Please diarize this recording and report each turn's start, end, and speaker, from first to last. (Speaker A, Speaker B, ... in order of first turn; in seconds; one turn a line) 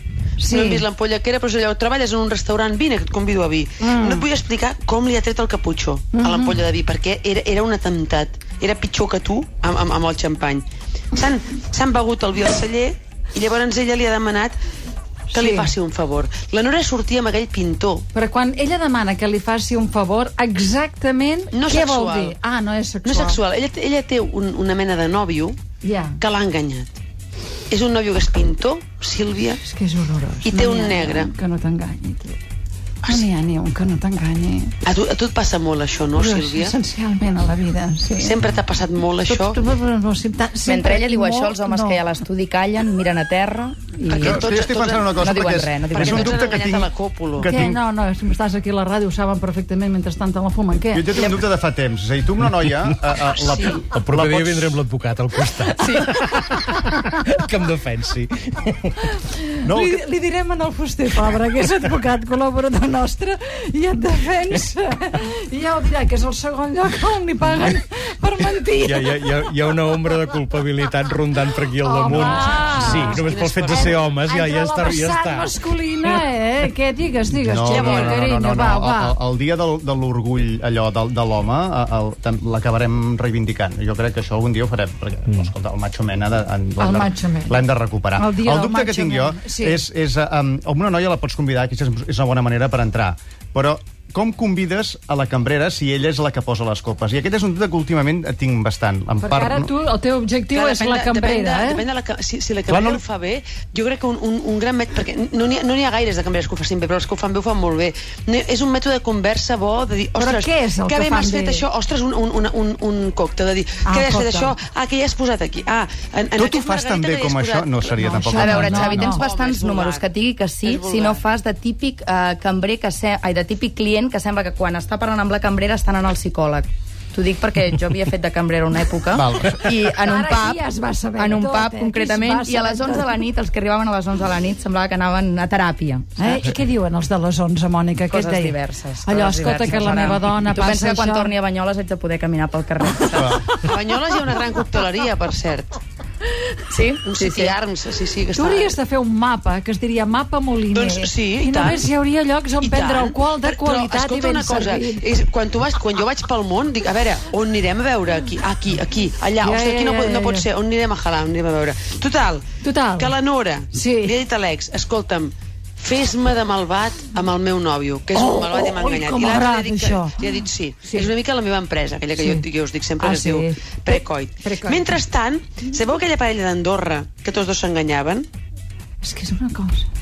Speaker A: 0.4-0.8
Speaker B: 0.5-14.6
Speaker A: 3.8-4.2
Speaker A: 6.2-6.6
Speaker A: 15.3-15.7
Speaker B: 15.3-18.1
Speaker A: 18.1-23.4
Speaker B: 21.5-22.4
Speaker B: 23.0-25.6
Speaker A: 25.8-26.2
Speaker B: 26.2-27.0
Speaker B: 27.7-29.6
Speaker A: 29.6-32.4
Speaker B: 30.4-31.3
Speaker A: 33.1-34.8
Speaker B: 34.9-36.8
Speaker A: 36.1-38.4
Speaker B: 38.2-39.6
Speaker A: 39.2-42.0
Speaker C: 40.6-44.5
Speaker B: 44.1-45.1
Speaker D: 44.2-47.8
Speaker C: 45.1-46.5
Speaker B: 45.9-47.5
Speaker A: 47.4-51.4
Speaker D: 50.9-54.8
Speaker B: 53.4-53.8
Speaker E: 53.9-59.1
Speaker A: 55.8-57.0
Speaker A: 59.0-69.3
Speaker D: 59.6-60.0
Speaker E: 68.8-76.2
Speaker A: 71.8-79.2
Speaker B: 72.1-74.1
Speaker D: 77.4-99.7
Speaker B: 77.7-78.2
Speaker A: 86.8-87.6
Speaker A: 88.2-89.8
Speaker A: 99.2-101.8
Speaker B: 100.5-120.1
Speaker D: 102.7-103.0
Speaker A: 110.2-111.7
Speaker A: 113.9-114.5
Speaker D: 116.4-119.0
Speaker A: 118.0-119.2
Speaker C: 118.4-130.6
Speaker B: 120.6-121.2
Speaker D: 129.1-129.7
Speaker A: 130.0-133.3
Speaker C: 131.2-136.5
Speaker A: 136.2-141.3
Speaker C: 138.1-143.4
Speaker D: 143.1-143.5
Speaker B: 143.5-145.8
Speaker C: 146.7-147.6
Speaker B: 147.0-148.8
Speaker A: 148.3-155.0
Speaker B: 150.7-151.9
Speaker B: 152.6-162.4
Speaker A: 159.4-160.5
Speaker A: 162.6-163.1
Speaker B: 162.9-178.3
Speaker A: 163.7-164.1
Speaker A: 168.2-170.3
Speaker A: 170.8-171.1
Speaker A: 172.2-172.4
Speaker A: 173.0-175.0
Speaker A: 179.0-179.9